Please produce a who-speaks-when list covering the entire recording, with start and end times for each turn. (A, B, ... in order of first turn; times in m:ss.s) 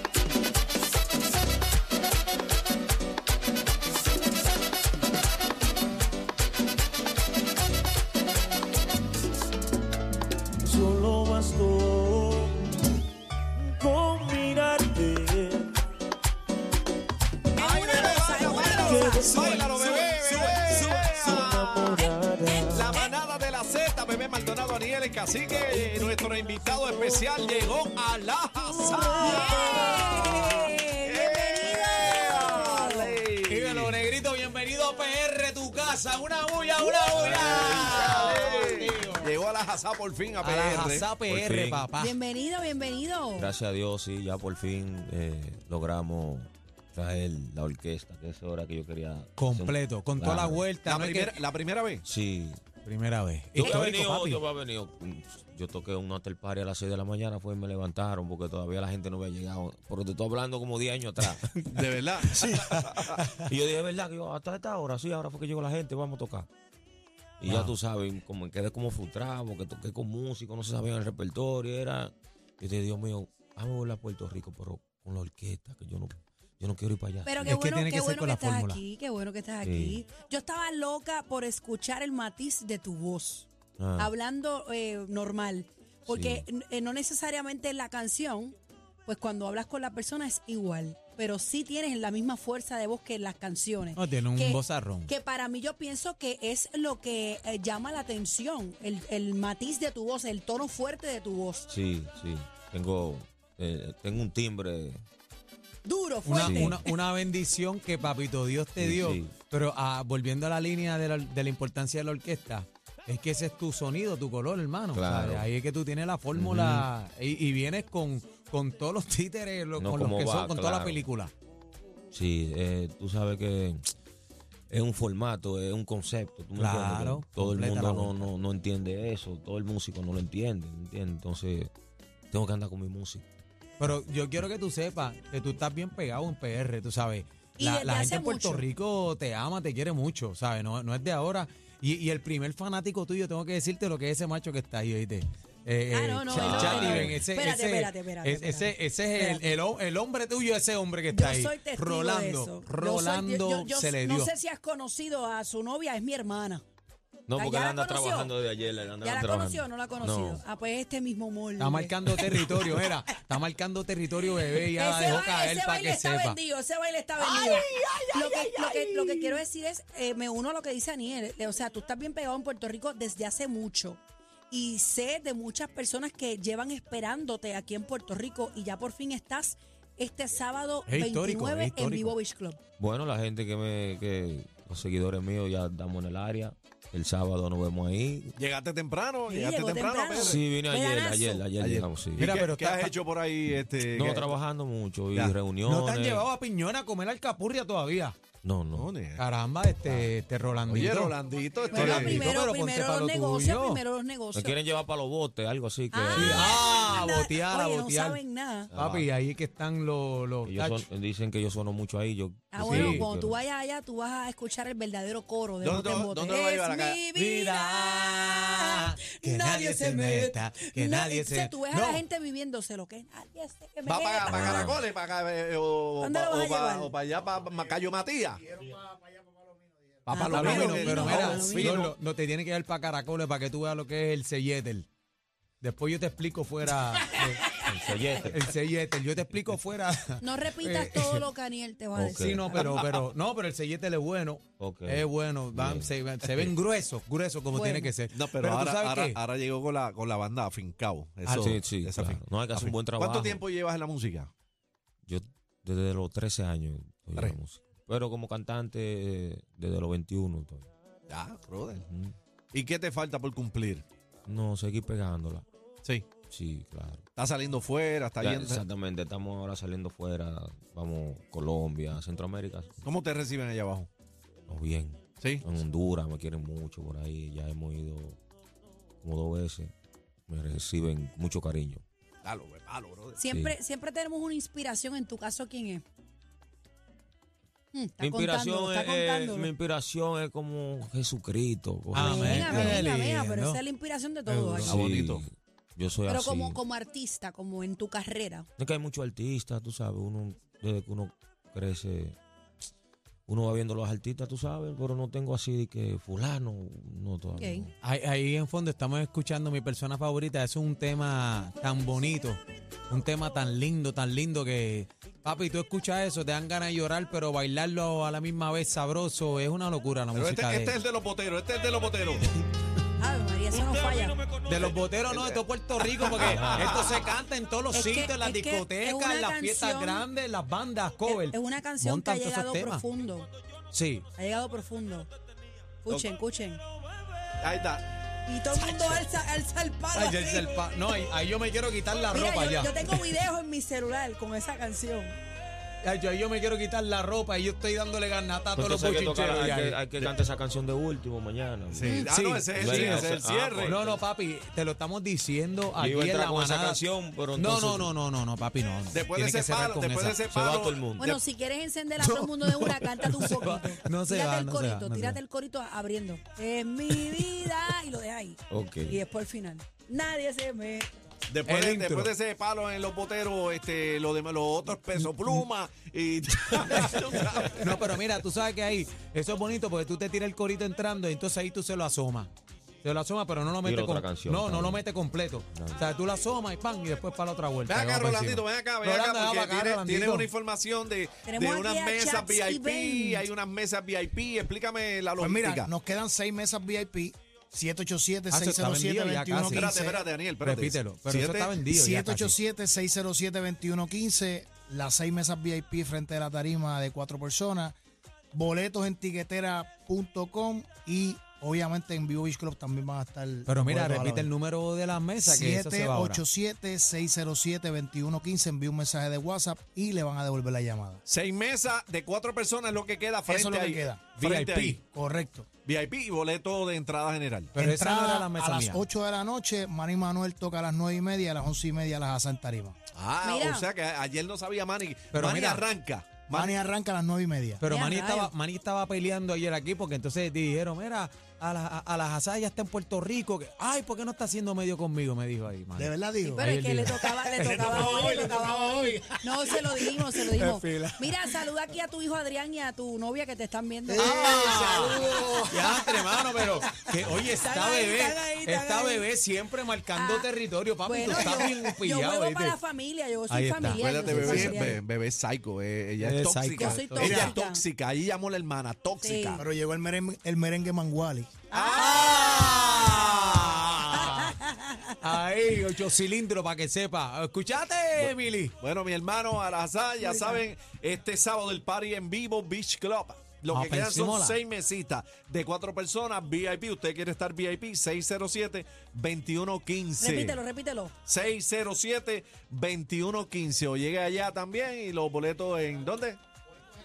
0:10.6-0:12.7 A
0:13.6-0:15.7 A
0:17.5-0:21.0 B
0:17.6-0:22.0 C
0:18.2-0:23.0 A
0:22.0-0:23.1 B
0:22.7-0:33.9 C
0:28.9-0:33.2 B
0:29.2-0:29.8 A
0:33.5-0:39.3 D
0:37.1-0:37.5 E
0:37.2-0:41.1 C
0:40.4-0:42.2 D
0:41.2-0:41.9 E
0:42.0-0:43.5 B
0:43.4-0:50.7 E
0:49.4-0:51.4 D
0:50.8-0:52.0 C
0:52.0-0:52.7 E
0:52.8-0:54.4 D
0:53.6-1:01.6 E
1:01.4-1:01.7 D
1:01.7-1:03.2 C
1:03.1-1:06.5 E
1:07.4-1:17.6 E
1:07.5-1:07.7 D
1:17.2-1:41.7 B
1:17.4-1:18.8 D
1:19.6-1:20.0 E
1:23.8-1:24.1 E
1:26.1-1:26.4 E
1:33.9-1:35.1 D
1:41.7-1:45.0 E
1:45.8-1:46.9 B
1:46.2-2:01.3 D
1:46.4-1:46.7 E
1:48.8-1:49.3 E
1:54.9-1:55.5 E
1:56.3-1:56.9 E
1:59.8-2:01.0 E
2:02.1-2:03.9 E
2:04.7-2:11.7 E
2:06.6-2:08.3 D
2:12.3-2:13.2 E
2:13.8-2:34.3 D
2:17.6-2:18.6 B
2:25.9-2:29.5 B
2:26.3-2:27.2 E
2:31.1-2:36.6 B
2:37.3-2:40.4 E
2:37.3-2:38.3 B
2:39.0-2:42.8 B
2:41.6-2:46.4 D
2:44.6-3:02.6 B
2:47.2-2:49.4 E
3:00.9-3:02.1 D
3:02.8-3:08.4 E
3:08.4-3:10.4 C
3:09.3-3:11.5 B
3:10.2-3:12.3 E
3:11.6-3:14.4 C
3:12.2-3:12.9 D
3:13.8-3:16.3 E
3:15.1-3:15.4 C
3:15.6-3:18.2 D
3:18.4-3:18.9 E
3:18.7-3:19.2 C
3:19.1-3:21.2 D
3:19.8-3:20.9 E
3:20.7-3:22.3 C
3:21.7-3:23.8 D
3:21.7-3:24.6 B
3:24.3-3:27.1 E
3:25.9-3:28.7 B
3:26.1-3:30.8 D
3:28.7-3:29.1 E
3:30.4-3:33.4 E
3:32.5-3:44.7 B
3:32.6-3:33.0 D
3:35.6-3:37.0 C
3:37.1-3:42.0 D
3:43.8-3:48.4 C
3:44.3-3:44.8 D
3:46.0-3:46.9 B
3:48.4-3:50.0 F
3:50.0-3:51.9 C
3:50.1-3:51.8 B
3:50.3-3:54.9 D
3:55.6-3:57.6 D
3:57.6-3:58.4 E
3:58.2-4:01.2 D
4:00.2-4:02.8 B
4:02.0-4:02.4 E
4:02.1-4:09.2 D
4:04.6-4:06.5 E
4:07.5-4:07.9 B
4:08.1-4:14.3 C
4:11.2-4:11.5 D
4:11.4-4:13.4 E
4:15.0-4:20.7 E
4:21.1-4:21.9 C
4:21.8-4:22.1 E
4:22.5-4:23.8 C
4:24.3-4:25.4 E
4:26.2-4:27.0 E
4:27.2-4:28.6 C
4:28.2-4:32.8 E
4:32.8-4:33.9 C
4:34.5-4:38.2 E
4:35.2-4:35.4 C
4:39.0-4:39.7 E
4:40.3-4:41.8 E
4:42.2-4:43.2 C
4:43.2-4:45.8 B
4:43.2-4:43.6 E
4:47.7-4:49.5 B
4:48.0-4:52.9 E
4:51.9-4:53.6 D
4:52.0-4:54.8 B
4:54.2-4:54.8 D
4:54.6-4:55.2 C
4:54.6-4:56.6 E
4:56.0-4:58.5 B
4:58.6-5:02.2 E
5:03.3-5:07.7 E
5:07.3-5:07.7 B
5:07.8-5:20.8 D
5:20.1-5:22.3 C
5:23.0-5:24.2 B
5:23.6-5:24.4 E
5:24.4-5:32.8 D
5:24.7-5:27.1 C
5:26.2-5:26.6 E
5:27.7-5:30.1 B
5:31.0-5:33.3 B
5:33.7-5:34.1 D
5:34.2-5:35.1 B
5:35.8-5:36.6 B
5:37.4-5:37.9 C
5:38.2-5:40.6 B
5:38.5-5:39.0 D
5:39.9-5:43.1 D
5:42.1-5:45.2 B
5:45.8-5:49.9 D
5:48.5-5:52.0 E
5:49.9-5:50.2 C
5:51.7-5:53.7 C
5:51.8-5:52.1 B
5:51.9-5:56.8 D
5:52.5-5:54.0 E
5:55.8-5:58.0 E
5:57.3-6:00.2 D
5:58.9-6:01.2 C
6:00.2-6:01.1 E
6:01.0-6:10.9 B
6:02.0-6:05.2 D
6:08.5-6:09.0 E
6:11.3-6:18.0 C
6:11.5-6:12.1 D
6:15.0-6:15.4 D
6:16.7-6:22.3 D
6:22.8-6:30.3 D
6:23.6-6:24.8 E
6:25.5-6:25.8 E
6:27.7-6:35.7 C
6:31.2-6:33.2 B
6:35.2-6:40.0 F
6:38.3-6:39.8 D
6:39.5-6:41.6 C
6:40.4-6:42.4 D
6:41.6-6:47.7 F
6:48.3-6:54.3 F
6:53.4-6:56.2 D
6:55.2-7:01.0 F
7:01.0-7:04.8 C
7:03.2-7:04.1 F
7:04.2-7:04.8 D
7:04.8-7:05.5 F
7:05.6-7:07.6 C
7:07.5-7:08.8 D
7:07.6-7:12.8 F
7:12.9-7:16.6 C
7:13.2-7:13.7 B
7:15.1-7:15.6 D
7:16.3-7:17.6 F
7:17.6-7:28.3 D
7:17.6-7:18.3 B
7:25.8-7:30.0 F
7:26.2-7:35.4 B
7:30.1-7:31.5 D
7:33.9-7:37.0 F
7:34.0-7:42.6 D
7:37.3-7:39.1 B
7:39.9-7:40.3 B
7:40.8-7:44.8 B
7:43.3-7:43.8 D
7:43.7-7:49.4 C
7:44.1-7:44.7 F
7:44.4-7:44.7 D
7:46.0-7:47.3 D
7:46.6-7:47.6 B
7:47.0-7:47.3 F
7:49.0-7:49.4 B
7:49.4-7:51.4 F
7:51.5-7:53.1 B
7:51.5-7:53.8 C
7:51.7-7:54.4 D
7:53.9-7:55.0 B
7:55.0-7:58.5 D
7:58.6-8:10.4 C
8:00.0-8:00.4 B
8:03.5-8:04.4 D
8:10.0-8:10.9 B
8:11.0-8:16.2 C